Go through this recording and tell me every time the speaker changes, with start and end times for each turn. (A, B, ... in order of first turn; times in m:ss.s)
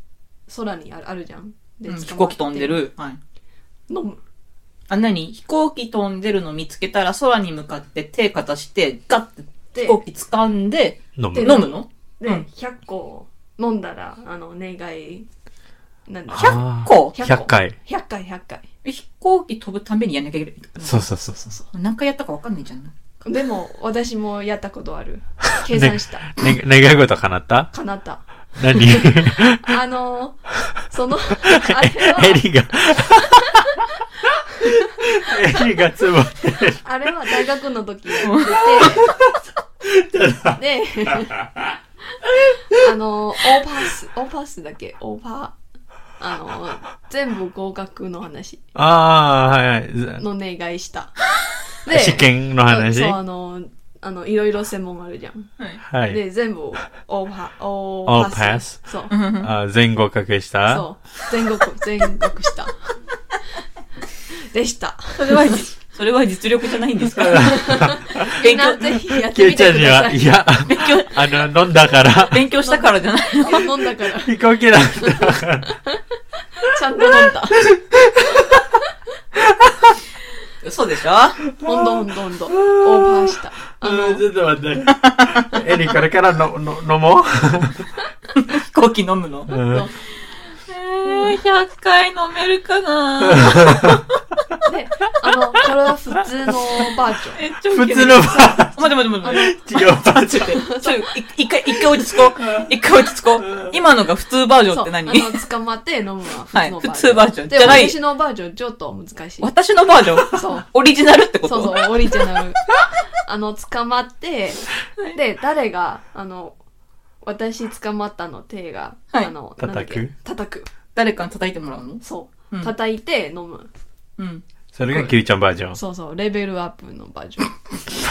0:00.5-0:02.8 A
0:01.9-0:03.2 B
0:03.9-0:04.2 A
0:04.9-0:12.4 B
0:09.7-0:10.0 A
0:11.2-0:11.6 C
0:11.3-0:15.3 A
0:16.1-0:18.7 A
0:16.3-0:17.8 C
0:16.4-0:17.2 B
0:18.8-0:21.1 B
0:20.8-0:21.5 C
0:21.4-0:21.7 A
0:21.7-0:22.9 B
0:23.2-0:26.4 A
0:25.7-0:27.7 C
0:27.7-0:32.4 A
0:28.6-0:29.8 C
0:31.5-0:33.6 C
0:34.6-0:36.8 C
0:36.8-0:39.2 A
0:38.2-0:38.6 B
0:38.4-0:41.7 C
0:40.5-0:41.5 A
0:42.4-0:42.7 C
0:42.7-0:45.6 A
0:46.2-0:48.6 A
0:48.7-0:50.2 C
0:50.2-0:51.2 A
0:51.8-0:55.5 A
0:51.9-0:53.2 C
0:55.9-0:56.2 C
0:56.0-0:59.1 A
0:58.0-1:00.8 C
0:59.1-0:59.5 B
1:00.7-1:02.9 A
1:04.3-1:05.6 A
1:05.2-1:09.0 B
1:07.1-1:08.3 C
1:07.3-1:10.4 A
1:09.2-1:12.4 C
1:10.7-1:11.4 B
1:12.3-1:13.7 B
1:12.6-1:16.0 A
1:14.2-1:15.7 C
1:16.6-1:17.7 A
1:17.6-1:18.6 C
1:19.4-1:20.0 C
1:20.6-1:21.4 B
1:21.6-1:24.3 A
1:21.6-1:21.9 C
1:22.5-1:27.8 C
1:25.0-1:25.5 B
1:28.3-1:29.6 B
1:29.5-1:29.9 C
1:29.6-1:30.0 A
1:30.7-1:34.0 B
1:33.2-1:34.0 C
1:34.6-1:37.4 A
1:37.3-1:45.4 B
1:37.7-1:40.6 C
1:39.2-1:39.6 A
1:40.5-1:41.0 A
1:44.7-1:49.5 A
1:46.5-1:48.0 B
1:49.4-1:52.2 B
1:50.3-1:50.7 A
1:51.4-1:52.6 A
1:53.2-1:56.6 A
1:57.2-2:00.7 A
1:59.6-2:00.1 C
2:00.9-2:02.7 B
2:02.0-2:03.7 A
2:04.2-2:04.4 B
2:04.7-2:05.8 C
2:05.7-2:07.6 A